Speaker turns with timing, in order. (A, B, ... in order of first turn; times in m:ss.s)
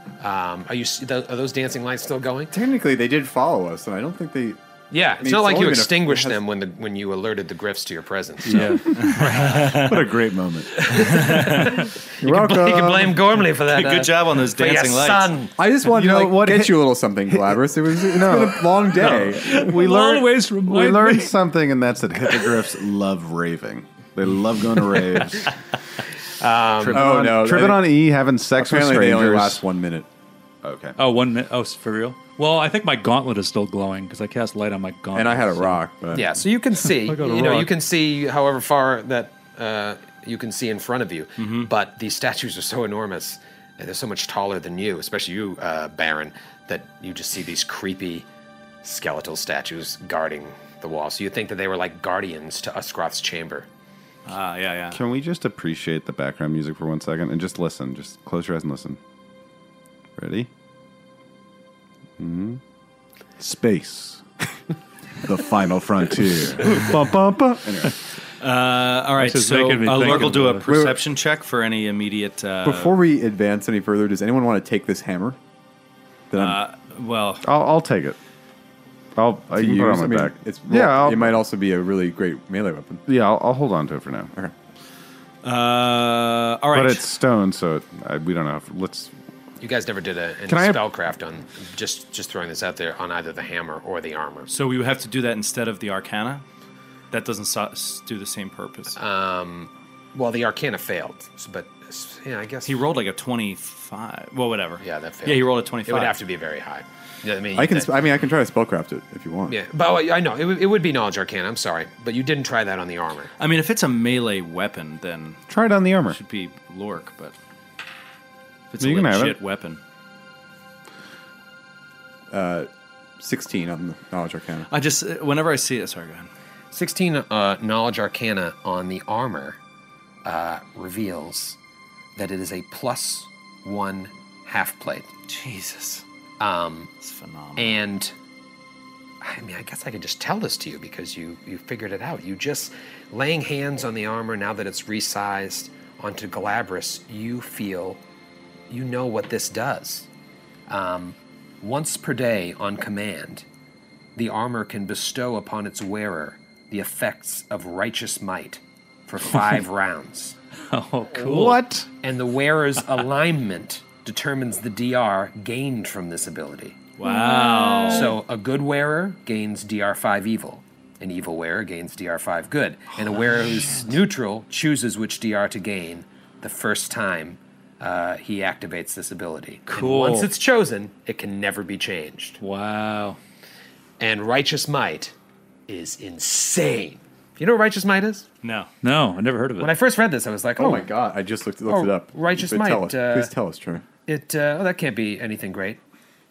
0:00.2-0:02.5 A
0:02.5-0:04.6 B
0:04.9-0:08.9 A
0:05.1-0:06.4 B
0:08.5-0:08.8 C
0:08.6-0:10.8 D
0:08.9-0:10.1 E
0:10.8-0:11.8 E
0:10.8-0:15.5 A
0:12.2-0:13.2 B
0:13.6-0:15.4 E
0:15.6-0:19.7 B
0:15.8-0:16.9 D
0:17.5-0:25.6 D
0:18.9-0:21.3 C
0:26.4-0:27.1 A
0:26.8-0:29.6 D
0:26.9-0:27.9 B
0:28.6-0:30.1 B
0:30.6-0:31.0 D
0:31.0-0:35.8 C
0:35.1-0:36.3 B
0:36.1-0:48.2 A
0:36.8-0:37.7 C
0:41.4-0:41.7 E
0:48.8-0:53.7 A
0:54.2-0:55.0 E
0:54.9-0:59.0 D
1:00.2-1:00.5 D
1:02.2-1:02.6 D
1:03.4-1:04.3 D
1:05.2-1:08.0 D
1:08.4-1:13.0 E
1:09.2-1:10.7 C
1:10.0-1:11.0 B
1:12.6-1:15.4 B
1:16.3-1:16.6 B
1:16.4-1:17.4 E
1:17.4-1:18.2 D
1:19.2-1:21.4 D
1:19.6-1:23.0 B
1:23.0-1:24.3 D
1:25.4-1:27.1 E
1:26.7-1:29.1 D
1:29.6-1:34.5 A
1:30.5-1:30.8 D
1:34.5-1:36.4 E
1:37.1-1:39.0 E
1:39.0-1:42.8 A
1:42.6-1:46.2 E
1:44.8-1:47.9 A
1:47.5-1:49.6 B
1:49.5-1:53.3 A
1:53.4-1:55.4 E
1:55.5-1:56.2 D
1:56.1-1:57.3 E
1:58.7-1:59.8 E
1:58.8-1:59.4 D
2:02.3-2:04.7 B
2:04.7-2:06.3 E
2:06.7-2:09.6 A
2:10.2-2:11.6 A
2:12.2-2:15.1 A
2:15.3-2:16.0 E
2:16.4-2:16.9 A
2:17.0-2:17.8 E
2:17.6-2:18.1 A
2:19.2-2:28.0 A
2:28.7-2:30.1 A
2:30.7-2:33.4 A
2:34.2-2:40.4 A
2:40.7-2:41.7 C
2:41.1-2:41.9 D
2:42.0-2:46.8 A
2:47.0-2:48.1 E
2:47.0-2:48.1 C
2:47.9-3:02.4 A
2:53.1-2:53.8 C
2:59.7-3:00.3 C
3:02.4-3:03.2 C
3:04.0-3:05.1 A
3:05.7-3:08.2 A
3:08.4-3:08.7 E
3:08.8-3:09.7 C
3:09.6-3:10.9 A
3:10.6-3:13.8 B
3:11.7-3:13.3 A
3:14.1-3:15.8 A